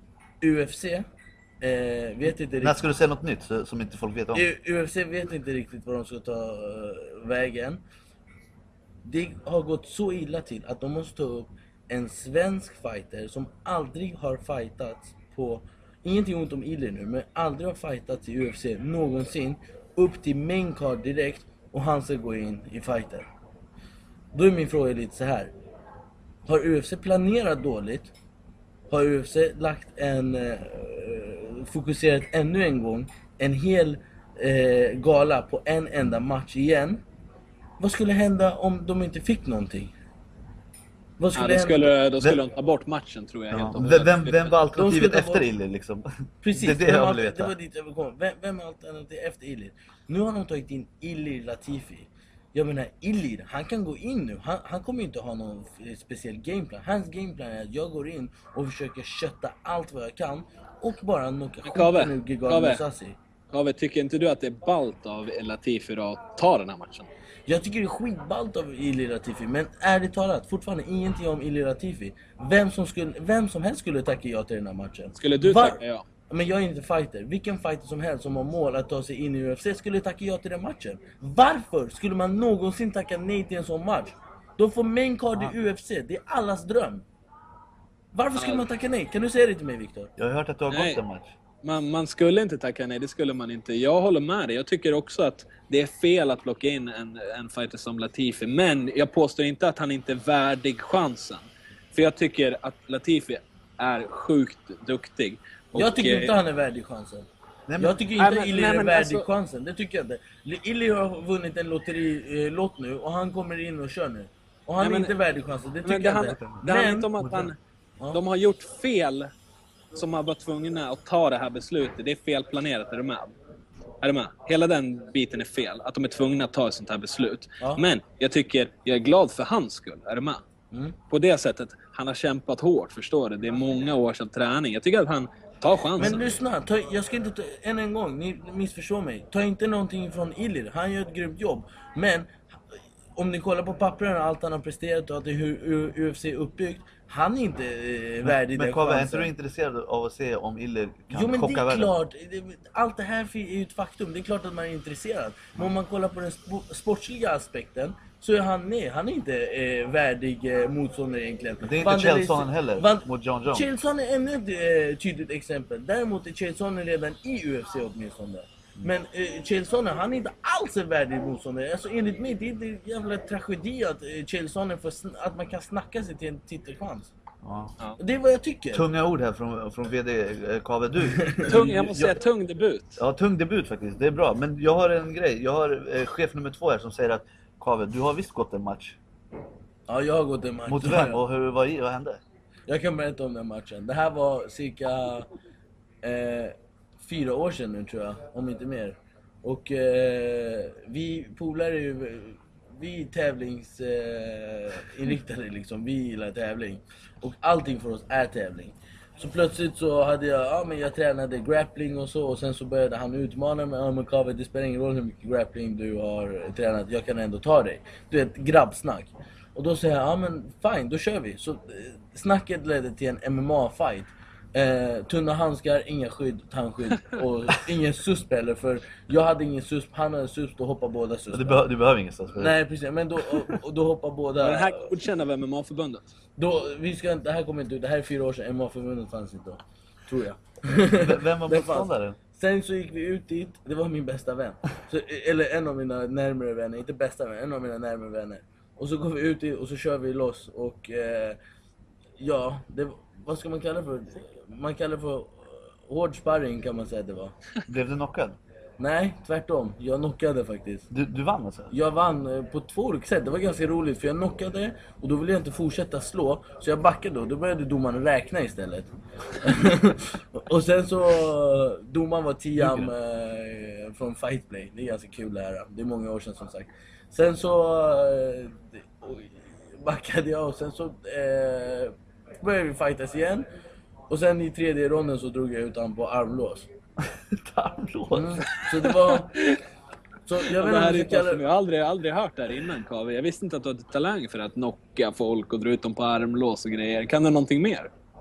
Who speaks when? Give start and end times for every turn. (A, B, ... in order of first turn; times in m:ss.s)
0:00.4-0:01.1 A
0:01.6-0:02.8 A
0:02.6-0:04.5 B
0:04.3-0:07.8 A
0:09.0-0:23.3 A
0:24.3-0:25.5 A
0:26.5-0:28.1 A
0:28.9-0:37.0 A
0:37.8-0:39.9 A
0:41.2-0:41.9 A
0:41.4-0:44.6 C
0:43.5-0:47.6 B
0:44.8-0:45.5 A
0:46.4-1:03.2 A
1:01.6-1:02.8 C
1:03.5-1:07.1 C
1:07.5-1:27.0 A
1:15.2-1:16.0 C
1:28.1-1:30.1 A
1:28.4-1:28.7 C
1:30.2-1:31.3 B
1:30.7-1:31.0 C
1:31.6-1:46.4 C
1:45.7-1:47.3 A
1:47.7-1:48.0 B
1:47.8-1:57.1 A
1:48.2-1:49.3 C
1:54.8-1:55.1 C
1:55.8-1:57.6 C
1:56.2-1:57.5 B
1:58.1-1:59.3 C
1:59.9-2:03.3 C
2:04.0-2:10.4 C
2:07.6-2:07.8 A
2:10.7-2:11.0 A
2:11.1-2:16.4 C
2:16.0-2:22.6 A
2:23.2-2:29.3 A
2:28.2-2:31.9 B
2:31.1-2:57.1 A
2:41.6-2:43.7 B
2:57.4-2:57.8 B
2:58.0-2:58.9 A
2:58.7-3:02.2 B
3:01.1-3:01.5 A
3:01.5-3:03.0 C
3:03.0-3:09.0 B
3:09.9-3:11.2 A
3:10.7-3:12.2 B
3:12.7-3:15.3 A
3:16.0-3:51.7 A
3:51.3-3:52.6 B
3:52.3-3:54.9 A
3:54.4-3:56.0 C
3:56.4-4:11.4 A
4:00.8-4:02.2 B
4:12.2-4:17.4 A
4:17.7-4:18.4 B
4:18.8-4:20.9 A
4:20.9-4:21.7 B
4:21.7-4:43.5 A
4:32.6-4:32.9 B
4:44.1-4:46.7 A
4:47.1-4:48.5 B
4:48.1-4:49.5 A
4:48.6-4:49.6 C
4:50.3-4:51.4 A
4:50.4-4:57.9 C